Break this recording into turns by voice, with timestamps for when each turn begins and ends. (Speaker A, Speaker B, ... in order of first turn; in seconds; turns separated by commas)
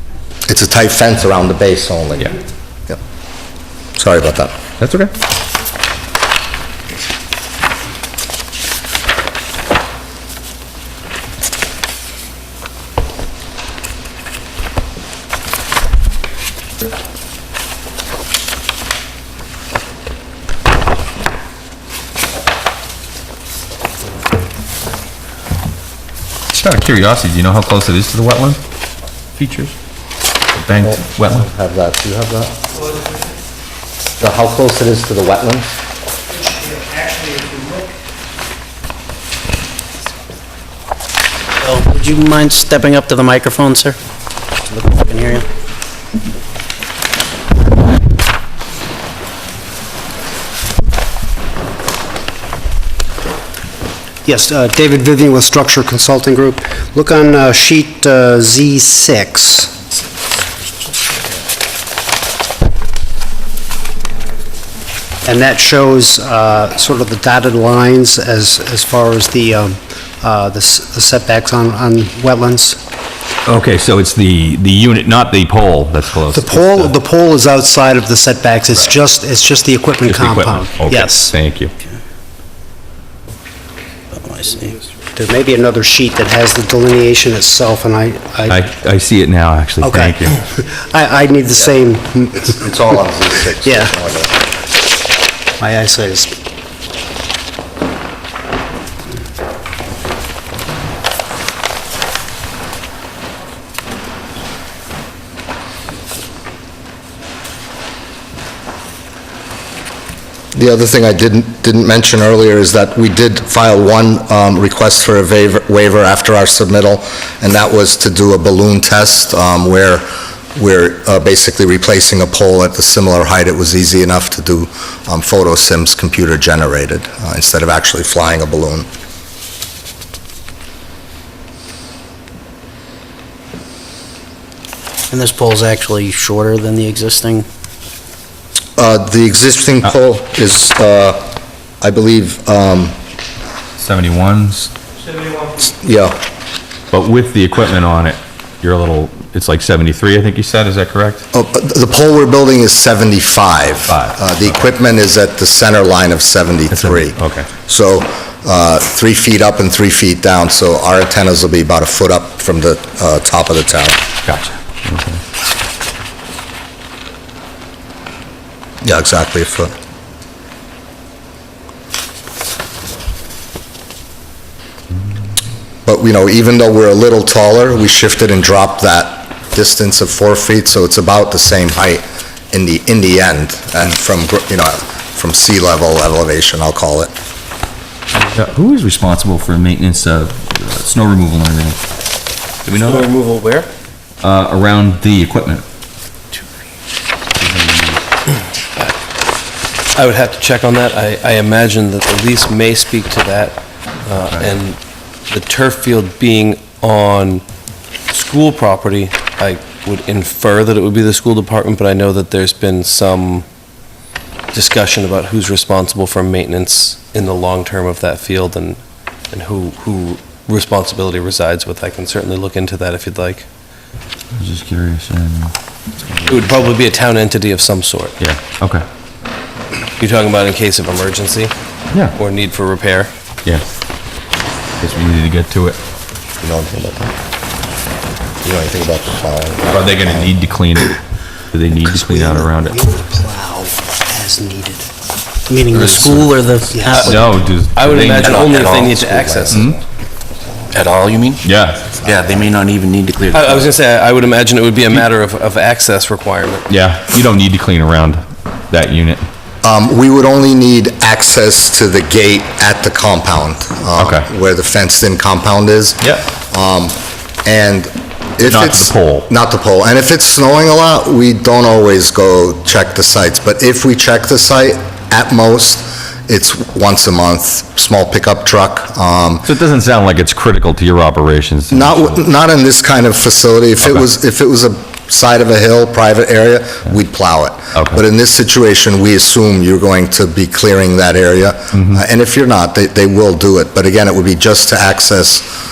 Speaker A: 0.5-2.4, Speaker A: 4.0-4.5, Speaker B: 4.8-5.1, Speaker B: 26.5-28.6, Speaker B: 29.4-29.7, Speaker B: 30.6-31.4, Speaker A: 30.8-32.5, Speaker A: 34.2-35.6, Speaker C: 36.6-37.7, Speaker D: 41.6-44.0, Speaker D: 44.7-45.5, Speaker C: 54.2-59.8, Speaker C: 65.2-72.8, Speaker B: 73.5-76.9, Speaker C: 76.2-81.3, Speaker B: 80.1-81.7, Speaker D: 84.1-84.8, Speaker C: 85.2-88.6, Speaker B: 88.5-90.3, Speaker C: 89.8-92.7, Speaker A: 92.3-94.3, Speaker C: 93.6-93.9, Speaker C: 95.6-96.3, Speaker A: 110.5-128.9, Speaker D: 135.1-137.4, Speaker A: 138.8-141.2, Speaker A: 141.8-142.9, Speaker B: 143.8-144.7, Speaker A: 145.4-146.2, Speaker B: 146.9-151.2, Speaker A: 151.3-164.0, Speaker B: 153.9-154.2, Speaker B: 156.7-157.5, Speaker B: 164.2-165.2, Speaker A: 168.8-169.7, Speaker A: 175.8-187.1, Speaker B: 188.3-191.8, Speaker B: 192.7-193.1, Speaker E: 192.7-193.7, Speaker B: 194.2-195.6, Speaker B: 197.4-198.0, Speaker E: 199.9-204.8, Speaker E: 205.3-207.4, Speaker E: 208.1-213.4, Speaker E: 214.5-218.8, Speaker E: 219.3-223.5, Speaker B: 224.3-226.5, Speaker E: 226.3-228.2, Speaker B: 228.2-228.8, Speaker E: 230.0-231.5, Speaker E: 232.1-233.1, Speaker B: 234.8-235.8, Speaker A: 236.4-237.1, Speaker A: 238.4-240.3, Speaker B: 239.7-241.0, Speaker B: 241.5-242.8, Speaker F: 242.0-242.4, Speaker C: 242.6-244.9, Speaker D: 245.5-247.2, Speaker C: 245.5-245.9, Speaker F: 245.7-249.7, Speaker C: 246.7-247.1, Speaker E: 246.9-249.6, Speaker B: 247.0-248.5, Speaker B: 249.5-249.8, Speaker F: 250.7-251.4, Speaker B: 251.4-252.0, Speaker F: 252.0-253.7, Speaker E: 253.3-256.6, Speaker B: 256.7-259.3, Speaker A: 259.6-279.5, Speaker B: 264.0-264.2, Speaker B: 268.4-269.3, Speaker B: 279.4-282.2, Speaker A: 281.7-295.5, Speaker B: 287.7-288.0, Speaker B: 291.7-292.0